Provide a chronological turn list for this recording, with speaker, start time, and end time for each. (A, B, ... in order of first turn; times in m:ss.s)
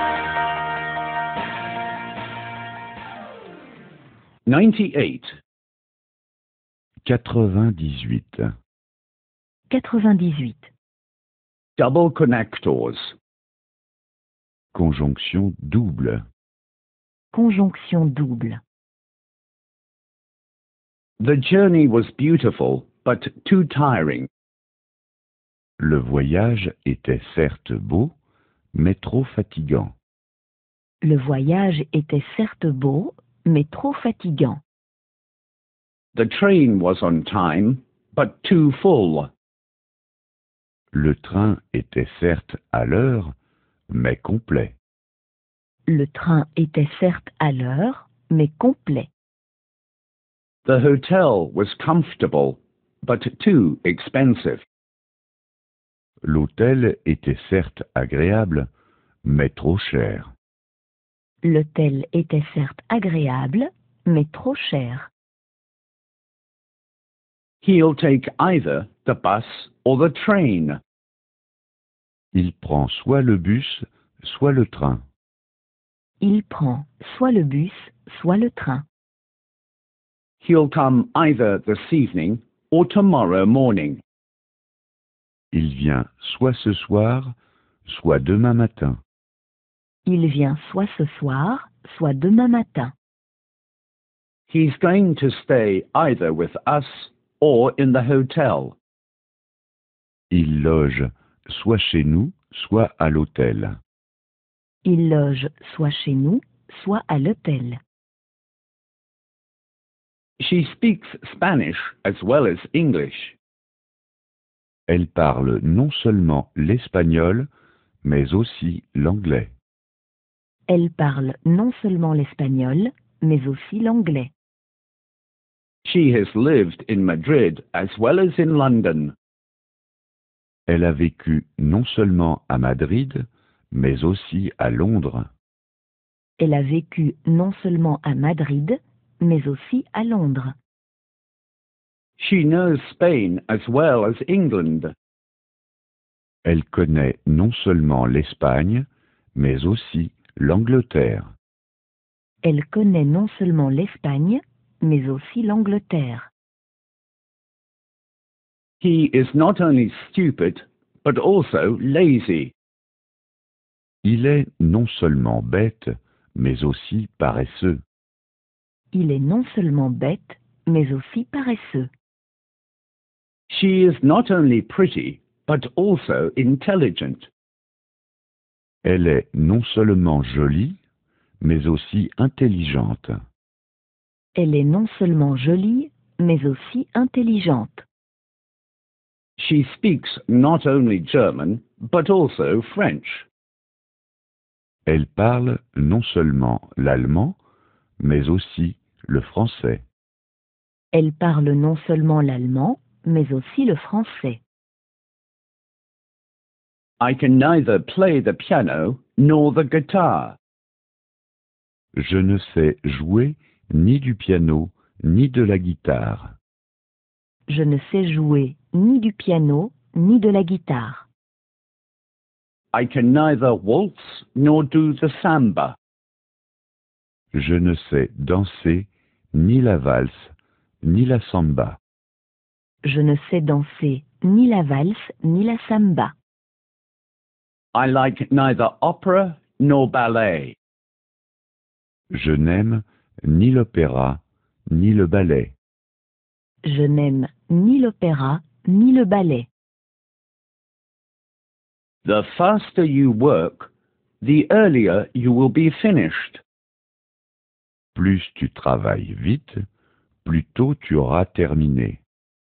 0:04.4-0:05.3 A
0:07.0-0:08.5 B
0:09.7-0:10.7 C
0:11.8-0:13.1 A
0:14.7-0:16.2 B
0:17.3-0:18.6 C
0:21.2-0:24.3 A
0:25.8-0:28.1 B
0:28.7-0:29.9 B
0:31.0-0:34.6 C
0:36.1-0:39.3 A
0:40.9-0:43.3 B
0:43.9-0:44.7 B
0:45.9-0:49.1 C
0:50.6-0:54.6 A
0:56.2-0:58.7 B
0:59.2-1:00.3 B
1:01.4-1:05.1 C
1:07.6-1:10.8 A
1:12.3-1:15.0 B
1:16.2-1:18.8 C
1:20.4-1:24.0 A
1:25.5-1:29.0 B
1:30.0-1:32.9 C
1:34.5-1:38.8 A
1:40.3-1:43.8 B
1:44.8-1:47.8 C
1:50.4-1:53.4 A
1:54.9-1:57.5 B
1:58.0-1:59.5 B
2:00.7-2:04.3 C
2:05.8-2:09.1 A
2:10.7-2:15.3 B
2:16.4-2:20.5 C
2:22.2-2:24.9 A
2:26.4-2:31.3 B
2:32.4-2:36.3 C
2:38.8-2:42.5 A
2:44.0-2:47.8 B
2:48.9-2:51.9 C
2:53.5-2:57.3 A
2:58.8-3:00.8 B
3:01.4-3:03.2 B
3:04.4-3:07.8 C
3:09.4-3:13.2 A
3:14.8-3:17.4 B
3:18.0-3:19.8 B
3:20.9-3:24.4 C
3:27.0-3:30.4 A
3:31.9-3:36.3 B
3:37.5-3:41.1 C
3:42.7-3:45.8 A
3:47.3-3:51.8 B
3:52.8-3:56.1 C
3:57.7-4:00.6 A
4:02.1-4:05.5 B
4:06.6-4:09.5 C
4:12.0-4:13.7 A
4:14.2-4:16.4 A
4:17.9-4:19.6 B
4:20.2-4:22.0 B